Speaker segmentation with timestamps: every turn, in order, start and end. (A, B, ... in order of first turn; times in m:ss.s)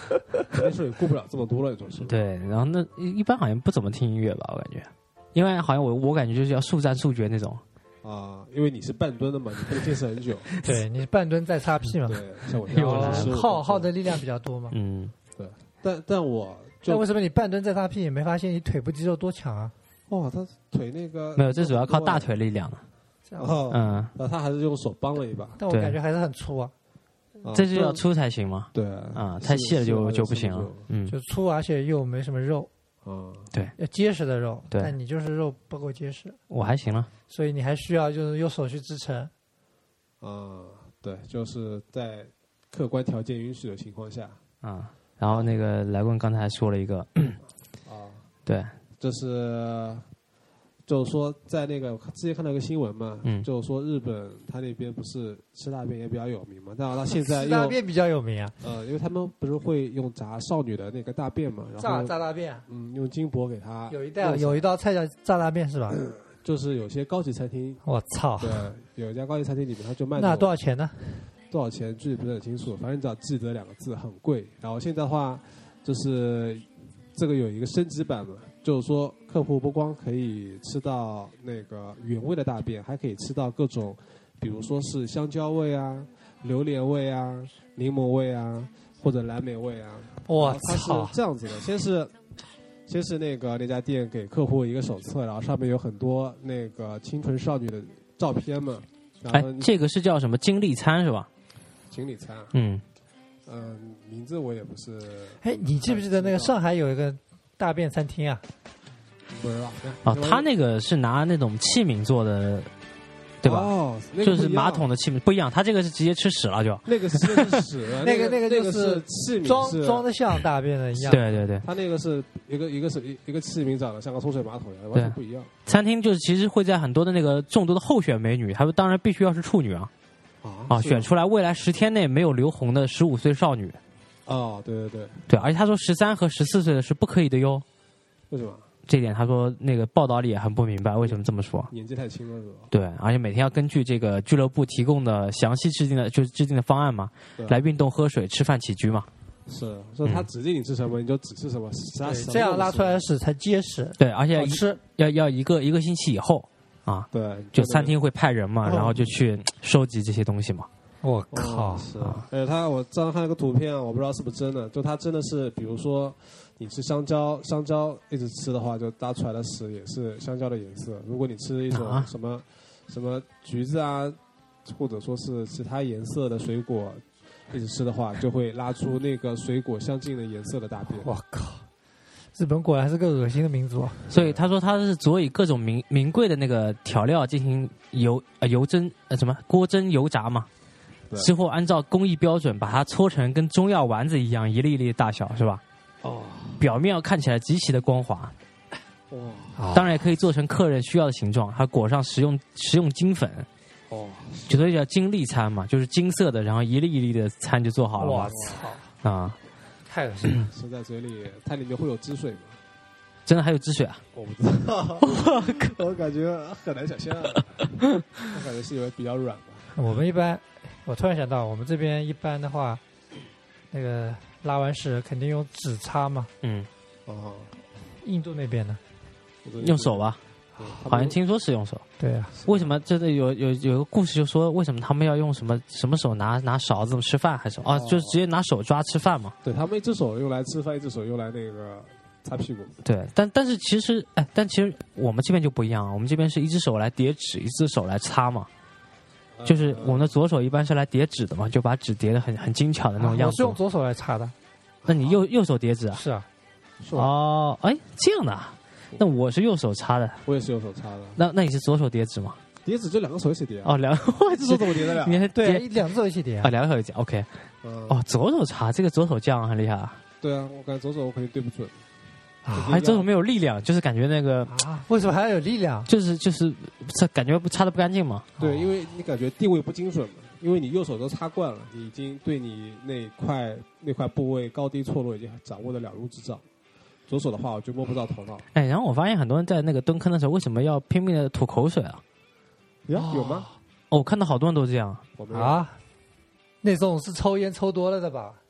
0:00.5-0:02.2 A
0:02.0-0:07.6 B
0:08.0-0:10.5 A
0:10.6-0:14.7 C
0:12.1-0:13.9 A
0:12.7-0:13.3 B
0:14.7-0:15.1 B
0:15.4-0:17.0 A
0:16.8-0:19.7 C
0:20.1-0:22.3 A
0:21.4-0:22.8 B
0:23.3-0:23.6 C
0:23.4-0:25.6 A
0:23.7-0:24.1 B
0:25.6-0:26.7 C
0:25.7-0:26.0 B
0:27.4-0:28.0 A
0:27.5-0:31.1 B
0:28.7-0:30.9 A
0:31.1-0:32.7 C
0:33.0-0:33.5 A
0:33.8-0:36.4 C
0:36.5-0:37.1 B
0:37.3-0:39.3 C
0:40.2-0:44.4 A
0:44.6-0:47.4 B
0:47.8-0:48.2 A
0:48.4-0:48.7 B
0:49.0-0:50.1 A
0:50.9-0:57.8 A
0:57.2-0:58.6 C
0:58.6-1:04.7 A
1:01.8-1:02.6 C
1:03.9-1:06.0 C
1:05.9-1:07.8 A
1:07.8-1:08.7 C
1:08.4-1:10.6 A
1:10.2-1:11.3 C
1:11.5-1:32.1 A
1:30.2-1:31.2 C
1:32.9-1:39.7 A
1:39.3-1:41.3 B
1:41.9-1:42.5 A
1:42.5-1:42.8 B
1:43.4-1:46.6 A
1:45.4-1:48.4 C
1:49.3-1:50.5 A
1:50.0-1:52.7 B
1:53.4-1:57.6 B
1:53.4-1:54.9 A
1:56.8-2:00.1 A
1:58.0-2:01.2 C
2:00.9-2:05.6 A
2:01.1-2:01.6 B
2:04.9-2:09.9 B
2:10.4-2:11.1 A
2:10.7-2:13.8 B
2:14.2-2:15.4 A
2:15.3-2:17.6 B
2:18.3-2:18.7 A
2:18.9-2:21.7 B
2:21.0-2:22.7 A
2:22.7-2:29.1 B
2:29.5-2:33.0 A
2:32.0-2:34.8 C
2:34.0-2:40.7 B
2:37.1-2:38.0 A
2:38.6-2:39.0 A
2:41.0-2:41.9 C
2:41.3-3:01.1 A
2:51.7-2:52.1 B
3:01.0-3:01.6 C
3:02.3-3:04.1 C
3:04.1-3:04.4 A
3:04.1-3:10.5 B
3:11.2-3:15.6 B
3:16.0-3:16.6 A
3:16.6-3:18.3 B
3:19.1-3:19.8 A
3:19.6-3:20.0 C
3:19.7-3:23.5 B
3:23.9-3:24.7 A
3:24.5-3:28.4 B
3:28.0-3:28.9 C
3:28.3-3:28.6 A
3:29.0-3:29.4 B
3:29.9-3:30.5 C
3:30.4-3:32.6 A
3:33.2-3:34.0 B
3:34.1-3:37.7 A
3:35.0-3:35.7 B
3:38.3-3:39.8 A
3:39.7-3:42.8 C
3:43.7-3:46.3 C
3:46.4-3:46.7 B
3:47.0-3:47.5 A
3:48.0-3:48.8 C
3:49.4-3:51.2 A
3:49.6-3:50.2 B
3:50.9-3:51.8 B
3:52.0-3:52.3 C
3:52.3-3:52.8 A
3:52.5-3:59.3 B
3:57.6-3:58.2 A
3:59.4-4:02.8 A
4:02.8-4:08.5 B
4:09.4-4:10.1 A
4:09.4-4:13.6 B
4:13.0-4:14.3 C
4:14.8-4:15.2 A
4:14.9-4:16.0 B
4:15.9-4:16.2 C
4:16.8-4:17.1 A
4:16.9-4:20.2 B
4:20.2-4:21.2 A
4:21.2-4:22.4 B
4:22.6-4:25.3 A
4:23.6-4:25.6 B
4:25.3-4:26.5 C
4:26.4-4:27.3 B
4:27.6-4:28.0 A
4:27.9-4:30.0 B
4:30.2-4:31.8 A
4:32.4-4:32.8 C
4:32.5-4:33.1 A
4:32.6-4:34.6 B
4:34.5-4:35.9 C
4:35.9-4:38.3 B
4:38.4-4:38.6 C
4:38.4-4:46.4 A
4:47.1-4:48.5 A
4:48.5-4:52.0 B
4:52.9-4:53.5 A
4:52.9-4:53.5 C
4:53.9-4:55.0 B
4:55.2-4:55.6 A
4:55.3-4:55.8 C
4:56.6-4:58.4 C